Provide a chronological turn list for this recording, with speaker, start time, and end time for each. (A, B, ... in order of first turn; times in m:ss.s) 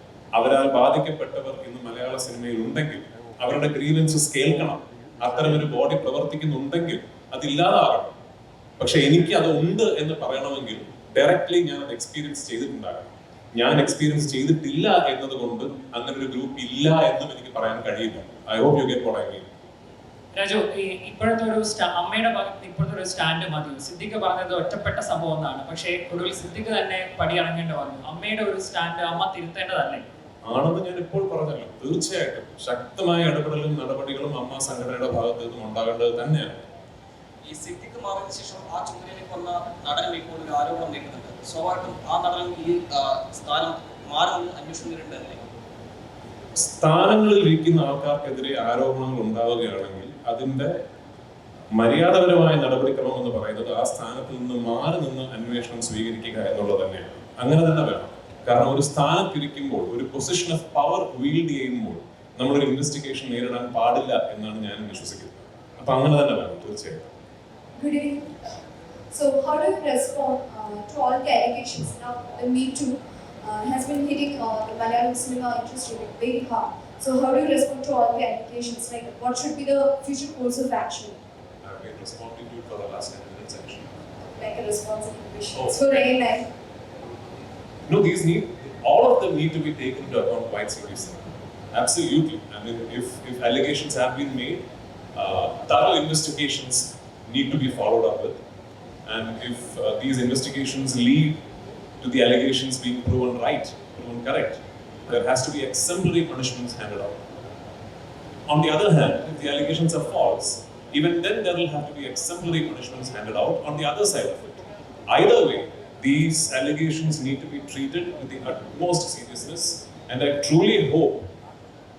0:00.3-0:08.2 A
0:08.8-0:19.5 A
0:20.4-0:30.0 B
0:30.5-0:36.5 A
0:37.4-0:45.4 C
0:46.6-0:50.8 A
0:51.8-1:07.1 A
1:07.8-1:08.4 D
1:09.1-1:21.2 D
1:21.6-1:23.9 A
1:24.2-1:26.5 D
1:25.5-1:25.8 A
1:27.9-1:34.6 A
1:35.2-1:38.4 A
1:39.1-1:41.4 A
1:42.0-1:47.2 A
1:48.5-1:54.4 A
1:55.1-2:01.3 A